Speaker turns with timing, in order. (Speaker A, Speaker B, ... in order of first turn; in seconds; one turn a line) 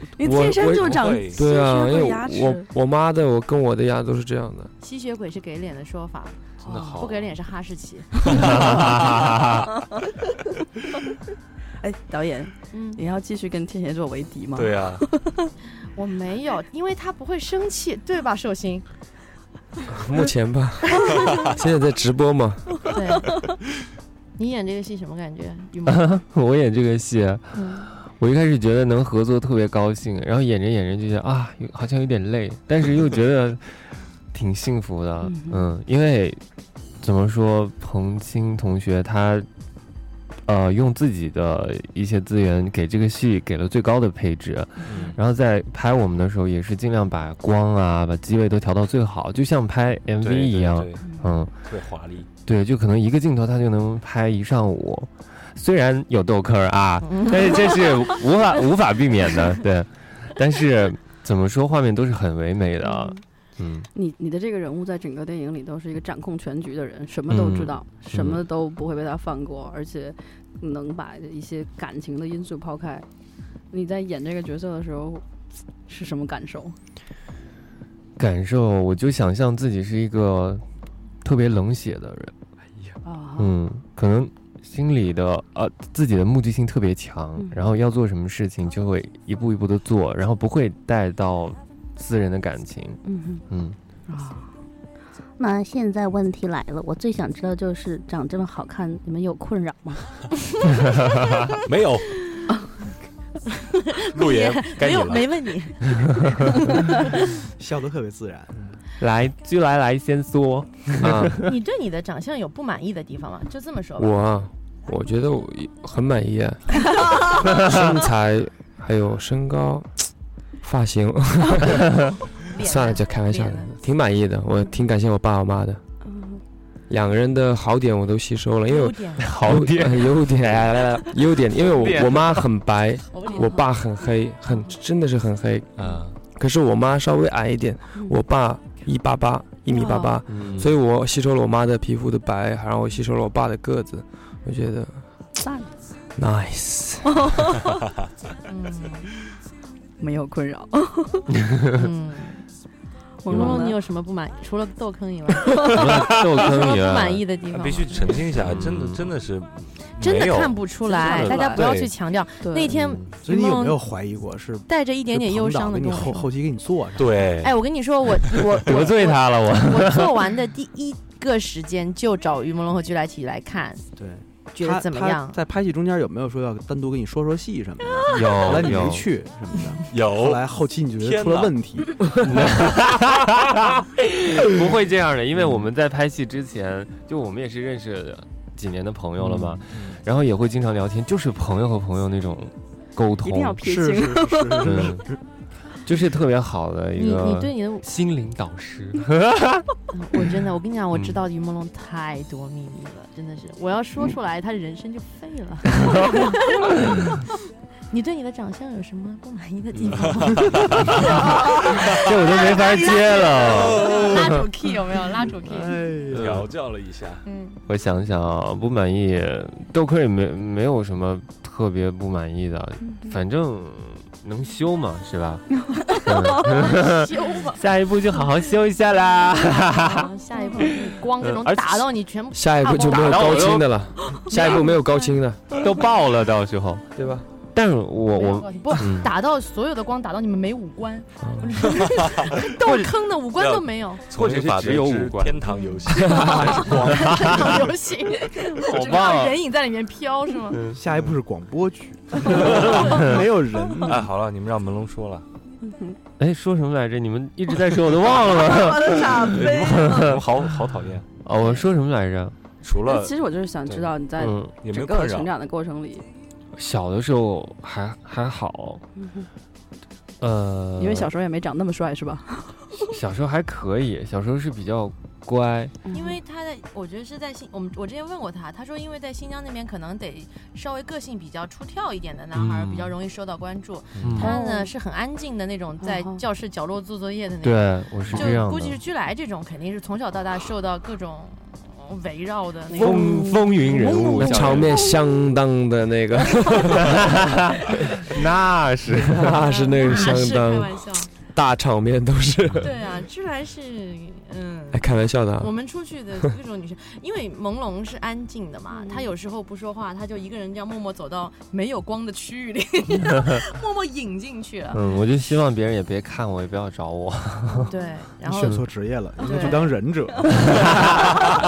Speaker A: 0.1-2.7
Speaker B: 0.2-4.7
Speaker C: 0.7-1.5
Speaker D: 4.8-8.1
Speaker A: 6.6-7.0
Speaker C: 6.6-7.3
Speaker A: 8.2-8.8
Speaker C: 8.3-9.4
Speaker E: 8.5-9.6
Speaker A: 11.8-15.5
Speaker D: 12.7-13.0
Speaker C: 14.5-15.0
Speaker D: 15.9-18.8
Speaker B: 19.9-22.7
Speaker D: 22.9-23.3
Speaker D: 24.4-26.1
Speaker E: 25.9-36.4
Speaker D: 27.6-27.8
Speaker A: 35.2-35.7
Speaker E: 37.0-39.5
Speaker E: 40.5-51.5
Speaker C: 44.8-45.2
Speaker C: 50.2-52.3
Speaker A: 51.0-51.3
Speaker E: 52.4-63.9
Speaker D: 57.0-57.6
Speaker A: 62.8-63.2
Speaker A: 63.9-73.0
Speaker E: 67.3-68.4
Speaker A: 73.7-75.2
Speaker A: 75.8-76.8
Speaker E: 78.2-80.6
Speaker E: 81.2-82.3
Speaker A: 83.0-83.6
Speaker E: 83.4-93.8
Speaker A: 93.0-93.4
Speaker A: 94.1-94.5
Speaker F: 95.4-100.1
Speaker C: 101.7-102.1
Speaker D: 103.6-107.0
Speaker C: 104.1-105.4
Speaker G: 107.3-108.6
Speaker E: 109.0-111.4
Speaker B: 111.0-111.4
Speaker D: 111.4-114.2
Speaker B: 114.0-120.1
Speaker B: 120.6-121.8
Speaker D: 122.4-123.8
Speaker B: 122.5-125.8
Speaker A: 126.0-126.4
Speaker B: 126.9-135.7
Speaker D: 128.7-129.3
Speaker E: 129.3-130.6
Speaker E: 131.8-132.2
Speaker D: 133.1-133.5
Speaker A: 133.3-133.6
Speaker C: 135.8-136.2
Speaker B: 136.2-145.1
Speaker A: 139.7-140.1
Speaker E: 140.3-140.7
Speaker A: 145.4-145.7
Speaker B: 146.2-147.4
Speaker A: 147.1-147.7
Speaker D: 148.5-149.1
Speaker A: 150.0-151.3
Speaker E: 151.4-151.8
Speaker D: 151.8-152.4
Speaker A: 153.2-153.8
Speaker D: 153.3-158.2
Speaker E: 153.3-153.6
Speaker E: 155.7-157.2
Speaker C: 157.5-160.7
Speaker E: 158.3-159.1
Speaker D: 160.0-163.8
Speaker A: 160.9-161.6
Speaker E: 161.0-161.8
Speaker A: 162.4-162.8
Speaker E: 162.7-163.1
Speaker G: 163.2-167.2
Speaker D: 164.7-166.3
Speaker C: 166.9-167.5
Speaker D: 167.4-173.8
Speaker E: 168.7-170.1
Speaker G: 173.9-182.3
Speaker D: 174.5-175.4
Speaker E: 178.1-179.1
Speaker C: 179.9-180.4
Speaker C: 181.0-181.6
Speaker E: 182.2-193.6
Speaker G: 189.2-189.6
Speaker C: 189.7-190.0
Speaker A: 193.2-194.9
Speaker G: 193.6-195.2
Speaker E: 194.6-195.0
Speaker E: 195.8-199.6
Speaker D: 196.9-197.8
Speaker D: 199.9-207.3
Speaker D: 207.9-215.8
Speaker C: 209.9-210.8
Speaker E: 211.9-214.2
Speaker G: 215.4-216.4
Speaker C: 216.1-217.2
Speaker D: 217.2-217.6
Speaker E: 217.7-225.5
Speaker A: 222.8-223.2
Speaker A: 225.6-226.7
Speaker E: 226.0-229.9
Speaker D: 226.3-227.6
Speaker D: 229.4-233.6
Speaker A: 230.3-230.7
Speaker E: 231.2-231.8
Speaker B: 232.3-235.4
Speaker E: 232.9-233.7
Speaker A: 234.1-234.5
Speaker D: 234.3-234.8
Speaker E: 235.5-236.9
Speaker B: 236.9-237.2
Speaker E: 237.5-239.1
Speaker D: 238.1-244.0
Speaker B: 241.2-241.7
Speaker E: 242.6-242.9
Speaker C: 243.3-247.7
Speaker E: 244.1-245.4
Speaker A: 245.5-246.7
Speaker D: 246.2-250.6
Speaker E: 246.5-247.4
Speaker E: 248.7-249.3
Speaker C: 248.8-249.1
Speaker G: 250.7-254.1
Speaker E: 252.4-253.2
Speaker C: 253.8-255.3
Speaker A: 255.6-256.0
Speaker E: 256.2-260.2
Speaker A: 258.1-260.1
Speaker C: 259.2-261.1
Speaker E: 261.2-262.4
Speaker C: 262.6-263.1
Speaker A: 262.9-266.1
Speaker C: 263.6-264.0
Speaker E: 264.2-264.5
Speaker C: 264.5-265.3
Speaker E: 266.6-268.8
Speaker A: 269.0-269.3
Speaker E: 270.2-271.1
Speaker A: 270.8-272.9
Speaker E: 272.9-275.8
Speaker A: 275.8-276.2
Speaker D: 275.9-293.2
Speaker E: 282.4-282.9
Speaker E: 284.0-284.3
Speaker C: 284.0-284.2
Speaker A: 284.1-284.7
Speaker A: 285.8-286.2
Speaker E: 287.4-288.8
Speaker A: 288.1-288.4
Speaker E: 292.8-294.9
Speaker A: 292.8-294.9
Speaker B: 294.1-297.2
Speaker E: 296.7-297.4
Speaker E: 298.1-299.3
Speaker B: 299.1-302.7
Speaker D: 299.4-301.1
Speaker D: 302.6-304.9
Speaker B: 304.7-305.5
Speaker D: 305.4-314.8
Speaker A: 308.7-309.1
Speaker E: 314.7-317.7
Speaker A: 314.7-315.0
Speaker A: 317.5-317.9
Speaker D: 317.6-318.6
Speaker G: 318.3-321.1
Speaker E: 318.4-318.6
Speaker A: 319.2-319.6
Speaker D: 319.2-319.7
Speaker A: 320.3-321.2